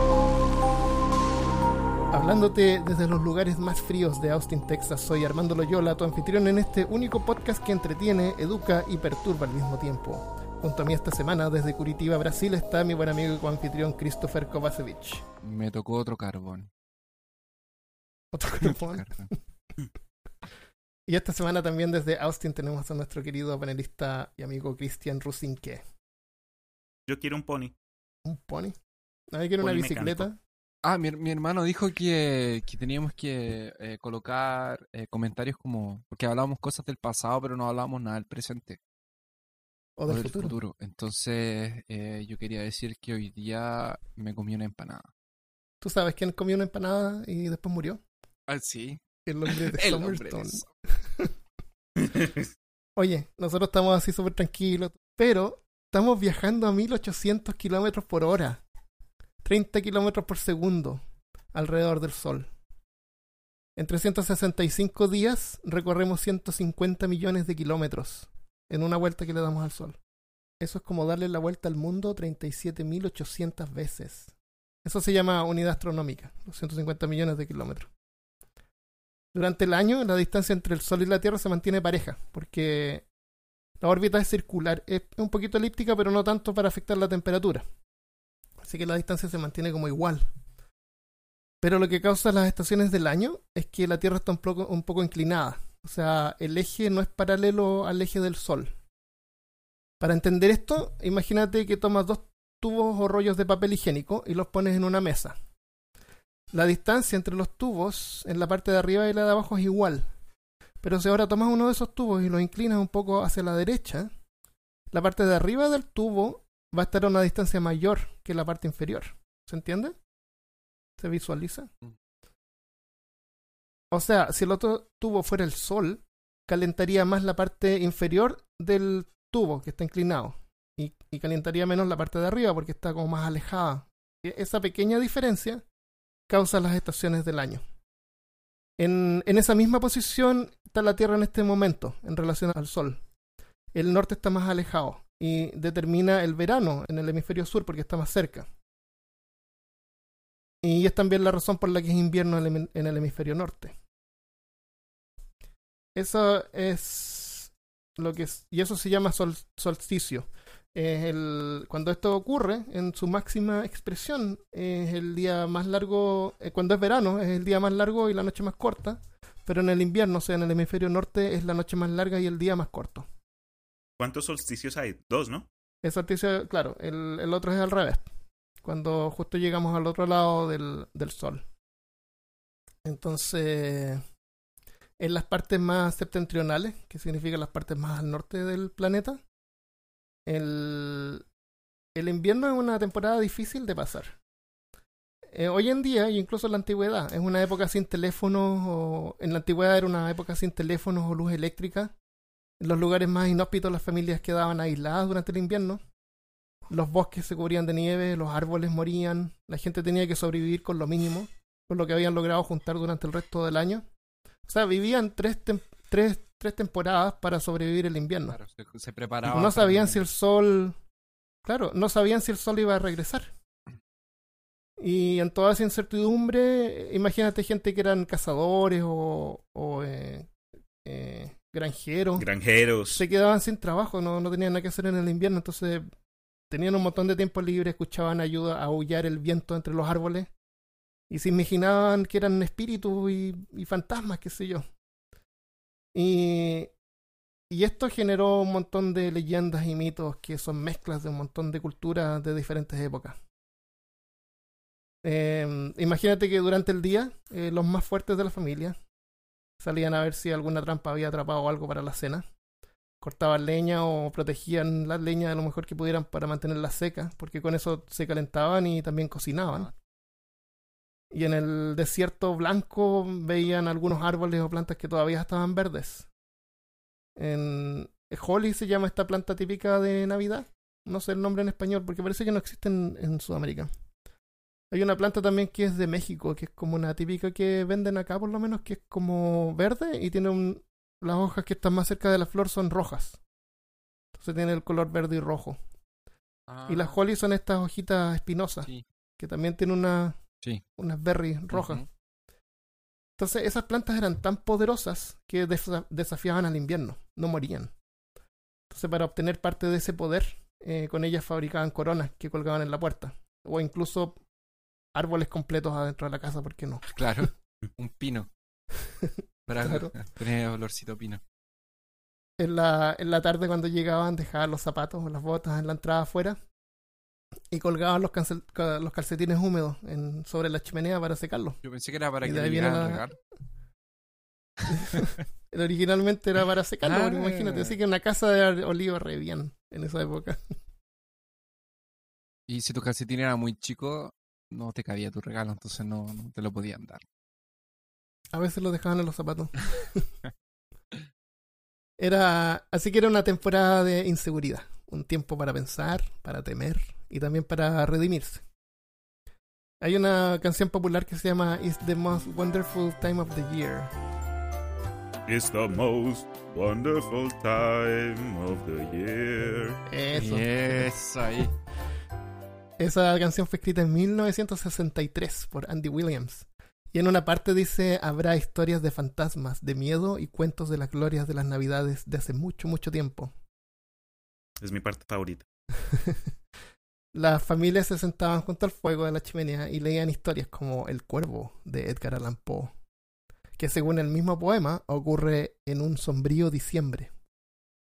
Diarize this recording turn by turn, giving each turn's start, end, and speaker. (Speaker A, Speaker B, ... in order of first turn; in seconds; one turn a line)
Speaker A: 2.1-15.2
Speaker B: 15.4-16.7
Speaker A: 18.3-19.2
Speaker B: 18.6-19.3
Speaker A: 21.1-25.8
Speaker C: 27.1-27.7
Speaker A: 28.2-28.8
Speaker A: 29.3-30.4
Speaker C: 29.6-30.3
Speaker B: 30.8-38.8
Speaker A: 40.0-40.5
Speaker B: 40.1-45.1
Speaker A: 45.8-48.0
Speaker B: 48.5-50.7
Speaker A: 49.2-51.3
Speaker A: 53.0-58.6
Speaker A: 59.4-61.0
Speaker A: 61.5-62.5
Speaker A: 63.8-70.0
Speaker A: 70.6-77.9
Speaker A: 79.3-83.0
Speaker A: 83.8-87.6
Speaker A: 88.6-90.3
Speaker A: 91.6-98.7
Speaker A: 100.0-105.3
Speaker A: 106.5-110.1
Speaker A: 110.8-114.1
Speaker A: 114.9-119.9
Speaker A: 121.0-121.7
Speaker A: 123.9-135.6
Speaker A: 136.3-137.6
Speaker A: 138.8-143.0
Speaker A: 143.7-148.5
Speaker A: 150.6-153.7
Speaker A: 155.9-173.1
Speaker C: 174.0-175.5
Speaker A: 175.8-178.1
Speaker A: 178.6-181.4
Speaker A: 182.8-184.0
Speaker A: 185.0-189.2
Speaker A: 190.3-191.2
Speaker A: 191.9-194.2
Speaker A: 195.3-201.9
Speaker A: 202.6-205.8
Speaker A: 206.7-213.8
Speaker A: 214.5-218.4
Speaker B: 218.3-220.0
Speaker A: 219.3-220.8
Speaker A: 221.4-223.3
Speaker A: 224.8-230.3
Speaker A: 230.8-232.2
Speaker C: 232.2-233.0
Speaker A: 232.9-235.9
Speaker A: 236.5-240.3
Speaker A: 241.1-244.7
Speaker A: 245.9-246.7
Speaker A: 247.5-253.2
Speaker A: 255.0-258.8
Speaker A: 259.6-262.2
Speaker A: 263.0-269.7
Speaker A: 271.1-276.1
Speaker A: 277.2-283.7
Speaker A: 284.7-293.2
Speaker A: 294.2-295.6
Speaker B: 296.5-297.0
Speaker A: 296.7-300.2
Speaker A: 300.8-301.8
Speaker B: 301.5-301.8
Speaker A: 303.2-307.7
Speaker A: 308.7-314.2
Speaker A: 314.9-316.9
Speaker B: 316.9-318.3
Speaker A: 319.0-319.9
Speaker B: 319.5-321.2
Speaker A: 322.4-326.4
Speaker A: 327.5-331.6
Speaker B: 331.6-333.1
Speaker A: 332.2-333.1
Speaker A: 334.7-340.5
Speaker B: 336.8-337.8
Speaker B: 342.5-347.0
Speaker A: 348.3-350.1
Speaker A: 352.0-358.4
Speaker A: 359.8-363.9
Speaker C: 365.3-369.8
Speaker A: 369.9-370.9
Speaker B: 370.1-371.5
Speaker A: 372.8-383.3
Speaker C: 384.6-385.4
Speaker A: 385.8-386.2
Speaker A: 387.1-392.7
Speaker A: 393.6-397.1